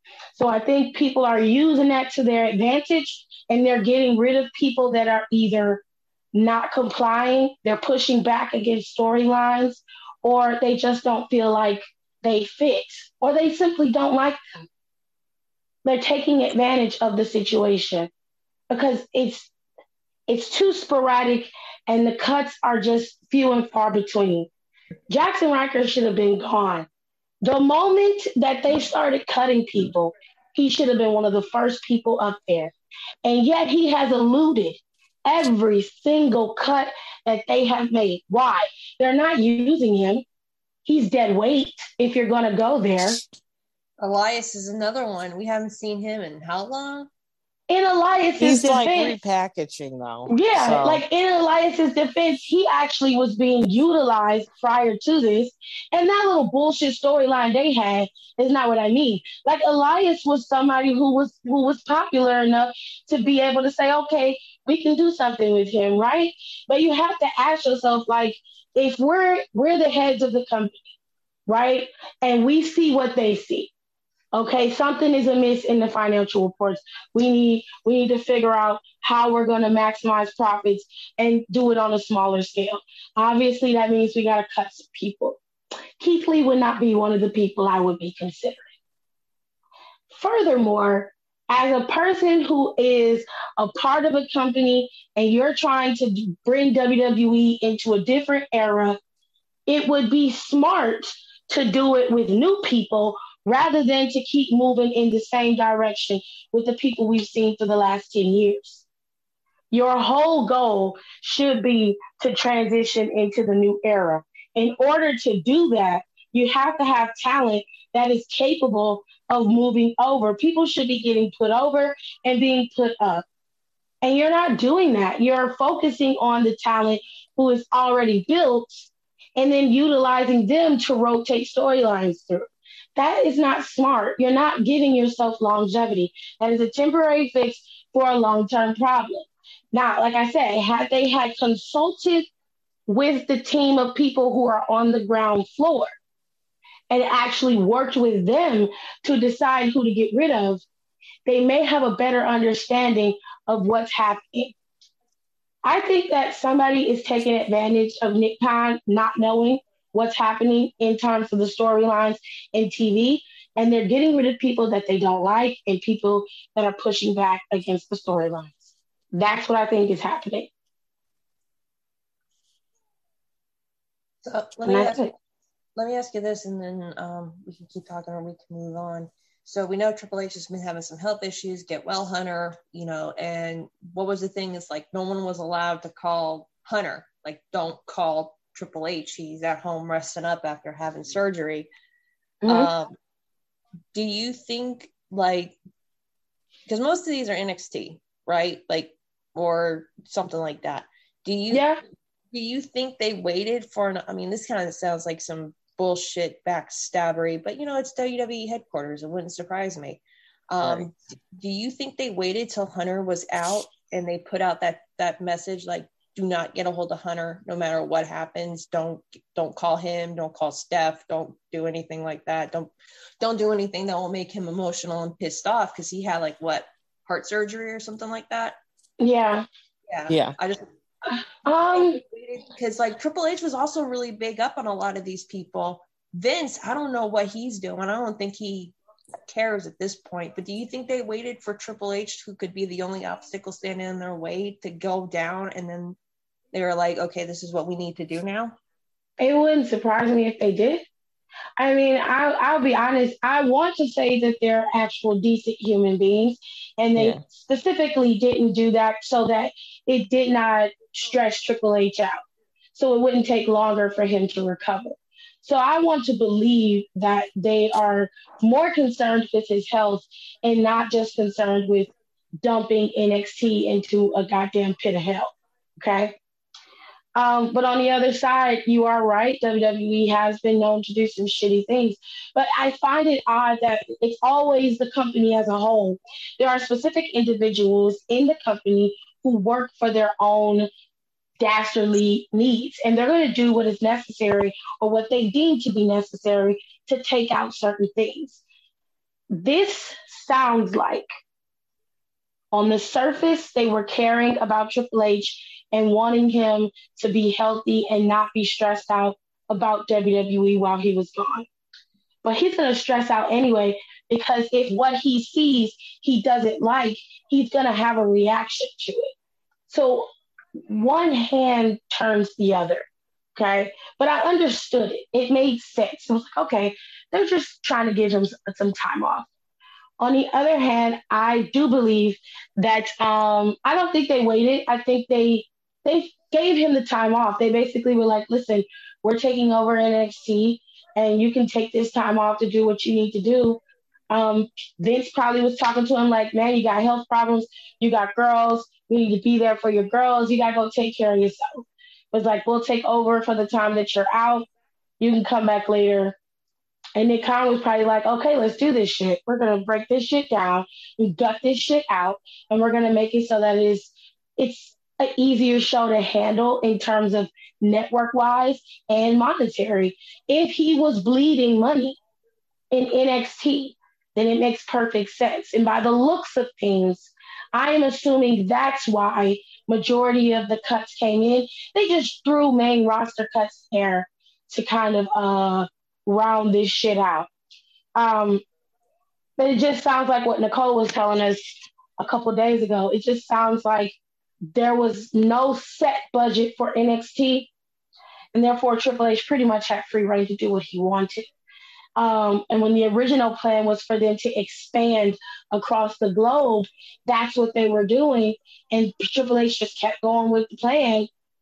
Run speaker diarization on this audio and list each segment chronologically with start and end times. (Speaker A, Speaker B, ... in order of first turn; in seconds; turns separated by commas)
Speaker A: 0.3-5.8, Speaker A: 6.3-14.7, Speaker A: 15.8-18.1, Speaker A: 18.7-19.5, Speaker A: 20.3-24.5, Speaker A: 25.1-26.9, Speaker A: 27.4-32.7, Speaker A: 33.2-40.2, Speaker A: 40.8-43.2, Speaker B: 44.0-47.1, Speaker A: 47.7-49.2, Speaker C: 48.4-51.0, Speaker A: 50.3-70.7, Speaker A: 71.5-73.7, Speaker A: 74.3-85.4, Speaker A: 86.0-88.7, Speaker A: 90.1-99.0, Speaker A: 99.7-108.8, Speaker A: 109.7-123.2, Speaker A: 124.0-142.2, Speaker A: 142.9-145.9, Speaker A: 146.9-150.6, Speaker A: 151.2-154.5, Speaker A: 155.6-170.5, Speaker B: 174.2-175.1, Speaker A: 174.7-175.1, Speaker B: 175.8-191.7, Speaker A: 192.4-192.7, Speaker B: 192.5-192.9, Speaker B: 193.9-195.6, Speaker B: 196.7-201.6, Speaker A: 201.5-201.8, Speaker B: 202.3-228.6, Speaker C: 210.6-210.9, Speaker A: 229.0-229.4, Speaker B: 229.9-230.6, Speaker C: 230.1-230.3, Speaker A: 231.1-232.0, Speaker B: 231.7-238.7, Speaker B: 239.3-246.0, Speaker B: 246.5-248.6, Speaker A: 249.2-250.8, Speaker A: 251.6-262.2, Speaker C: 256.9-257.2, Speaker A: 262.7-271.9, Speaker A: 272.4-276.1, Speaker A: 277.1-290.7, Speaker A: 291.4-298.4, Speaker A: 299.3-301.1, Speaker A: 302.5-311.4, Speaker A: 312.2-319.1, Speaker A: 319.7-320.1, Speaker A: 320.7-322.8, Speaker A: 323.4-329.3, Speaker A: 330.0-351.4, Speaker A: 352.1-354.4, Speaker A: 355.0-356.1, Speaker A: 356.9-372.0, Speaker A: 372.7-387.3, Speaker A: 387.9-388.4, Speaker A: 389.4-393.9, Speaker A: 394.5-397.5, Speaker A: 398.3-401.2, Speaker A: 401.9-411.1